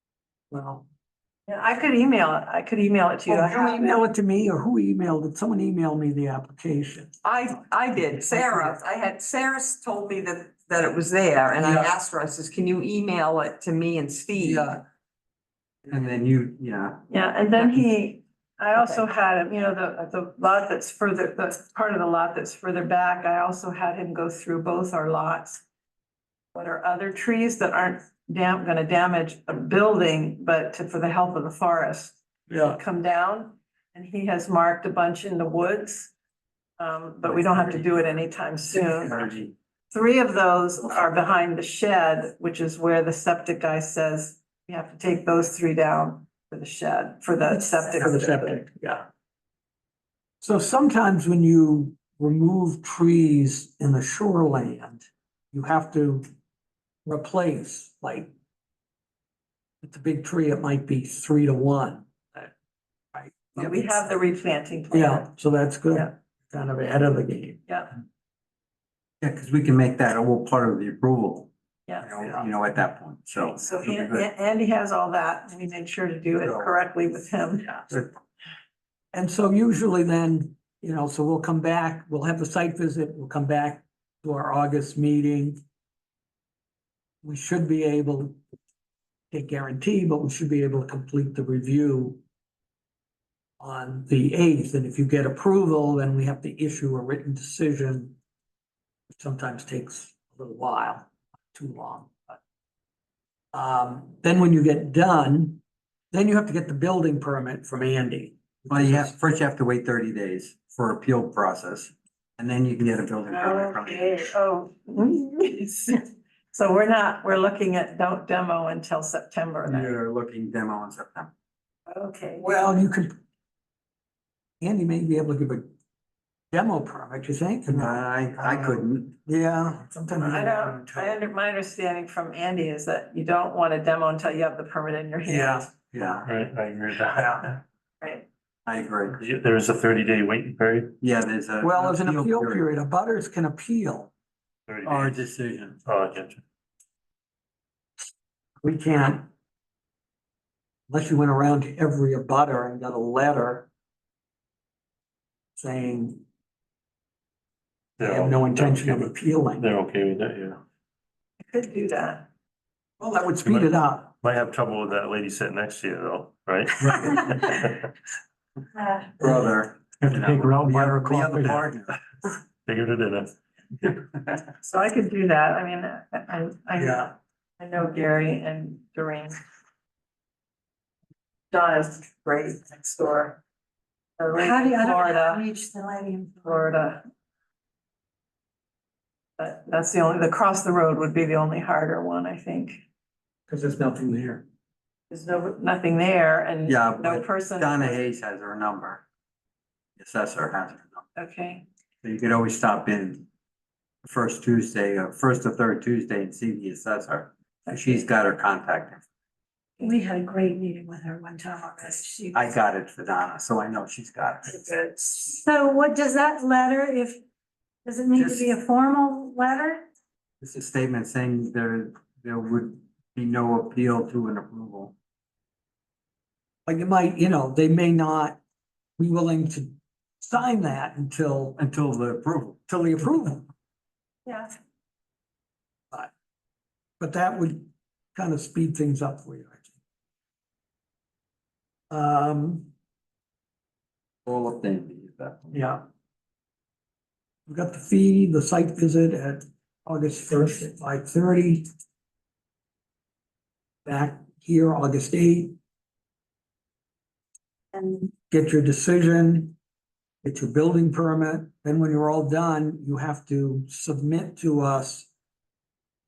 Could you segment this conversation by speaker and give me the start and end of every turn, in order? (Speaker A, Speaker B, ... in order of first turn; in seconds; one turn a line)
Speaker A: 0.5-0.8
Speaker B: 1.5-3.9
Speaker A: 3.3-7.1
Speaker C: 7.2-14.7
Speaker A: 8.3-8.8
Speaker A: 11.6-11.9
Speaker A: 14.3-14.8
Speaker D: 15.9-17.0
Speaker B: 17.1-25.6
Speaker B: 26.5-36.1
Speaker A: 32.5-32.8
Speaker B: 36.8-39.2
Speaker D: 39.1-39.5
Speaker B: 39.9-48.6
Speaker A: 47.5-49.0
Speaker A: 50.4-56.2
Speaker A: 57.0-58.3
Speaker A: 59.8-62.5
Speaker A: 63.1-63.9
Speaker B: 63.5-65.3
Speaker A: 64.9-67.6
Speaker D: 69.2-74.3
Speaker B: 73.4-77.8
Speaker D: 76.4-76.7
Speaker A: 79.1-85.6
Speaker A: 87.2-88.4
Speaker A: 89.3-92.2
Speaker A: 93.6-98.2
Speaker A: 99.1-102.4
Speaker A: 103.5-105.6
Speaker A: 106.1-109.1
Speaker D: 108.7-114.3
Speaker B: 113.3-120.0
Speaker D: 119.6-121.3
Speaker B: 121.9-122.5
Speaker A: 122.4-123.1
Speaker A: 124.6-125.6
Speaker A: 126.5-131.2
Speaker D: 127.7-129.1
Speaker B: 130.2-135.7
Speaker A: 135.3-136.3
Speaker E: 136.2-137.6
Speaker A: 137.1-137.5
Speaker D: 138.7-139.2
Speaker E: 139.1-140.9
Speaker D: 141.0-142.6
Speaker A: 141.6-144.1
Speaker E: 144.7-145.3
Speaker D: 144.8-145.8
Speaker E: 145.8-146.4
Speaker A: 148.6-149.3
Speaker A: 150.9-153.7
Speaker A: 155.6-156.2
Speaker E: 158.0-160.6
Speaker A: 158.0-159.7
Speaker B: 161.5-162.3
Speaker A: 163.0-164.1
Speaker E: 163.4-167.9
Speaker A: 169.2-169.5
Speaker D: 169.2-171.9
Speaker E: 170.0-171.7
Speaker E: 172.6-173.3
Speaker B: 174.6-179.4
Speaker A: 176.8-177.1
Speaker B: 181.5-183.4
Speaker B: 184.2-185.4
Speaker F: 184.3-186.8
Speaker B: 186.4-187.0
Speaker B: 189.4-192.8
Speaker A: 193.5-194.4
Speaker B: 195.1-198.0
Speaker D: 196.7-199.0
Speaker D: 200.0-201.0
Speaker B: 201.2-201.7
Speaker D: 202.0-203.2
Speaker D: 204.0-209.0
Speaker B: 207.7-208.0
Speaker F: 209.8-212.5
Speaker D: 212.3-214.8
Speaker F: 214.9-217.2
Speaker F: 217.8-219.8
Speaker D: 218.2-218.4
Speaker D: 220.4-224.9
Speaker A: 226.7-228.4
Speaker A: 229.0-231.6
Speaker D: 231.6-232.6
Speaker A: 232.7-233.4
Speaker B: 234.2-234.5
Speaker A: 237.0-239.7
Speaker A: 241.9-242.7
Speaker D: 244.2-245.4
Speaker A: 245.5-245.8
Speaker A: 247.5-251.7
Speaker A: 253.8-255.6
Speaker F: 257.8-258.0
Speaker A: 258.2-259.6
Speaker A: 260.2-265.1